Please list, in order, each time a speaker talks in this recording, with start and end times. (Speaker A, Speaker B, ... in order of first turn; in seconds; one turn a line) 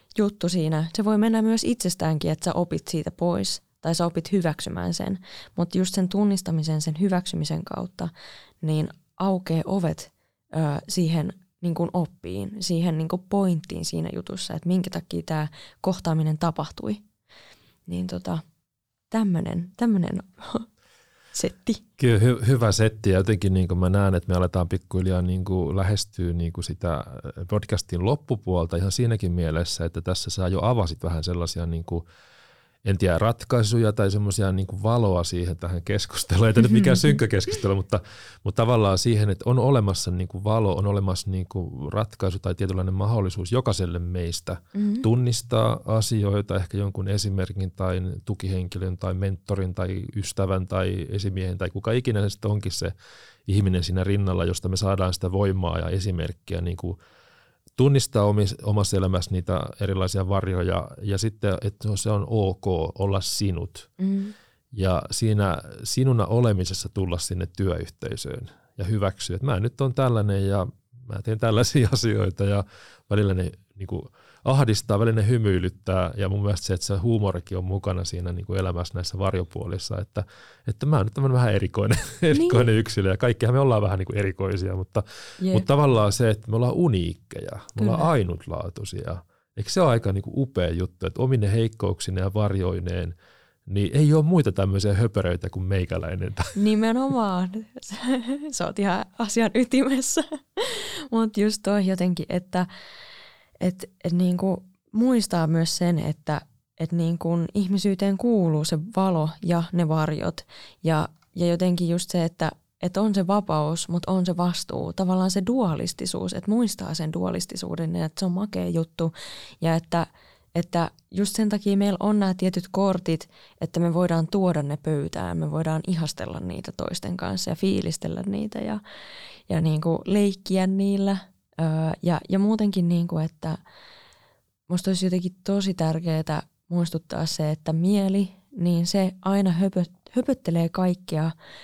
Speaker A: 0.1-17.0
Speaker A: 17.9-18.4
Speaker A: 19.1-20.7
Speaker A: 21.3-21.8
Speaker B: 22.0-32.0
Speaker B: 32.8-52.9
Speaker A: 36.7-37.0
Speaker A: 44.7-45.0
Speaker B: 53.5-57.0
Speaker B: 57.8-63.9
Speaker A: 64.0-64.3
Speaker B: 64.7-93.1
Speaker A: 82.3-82.6
Speaker A: 85.4-85.7
Speaker A: 87.8-88.1
Speaker B: 93.7-96.6
Speaker A: 96.5-102.7
Speaker A: 103.6-128.8
Speaker A: 129.5-133.6
Speaker A: 134.7-141.3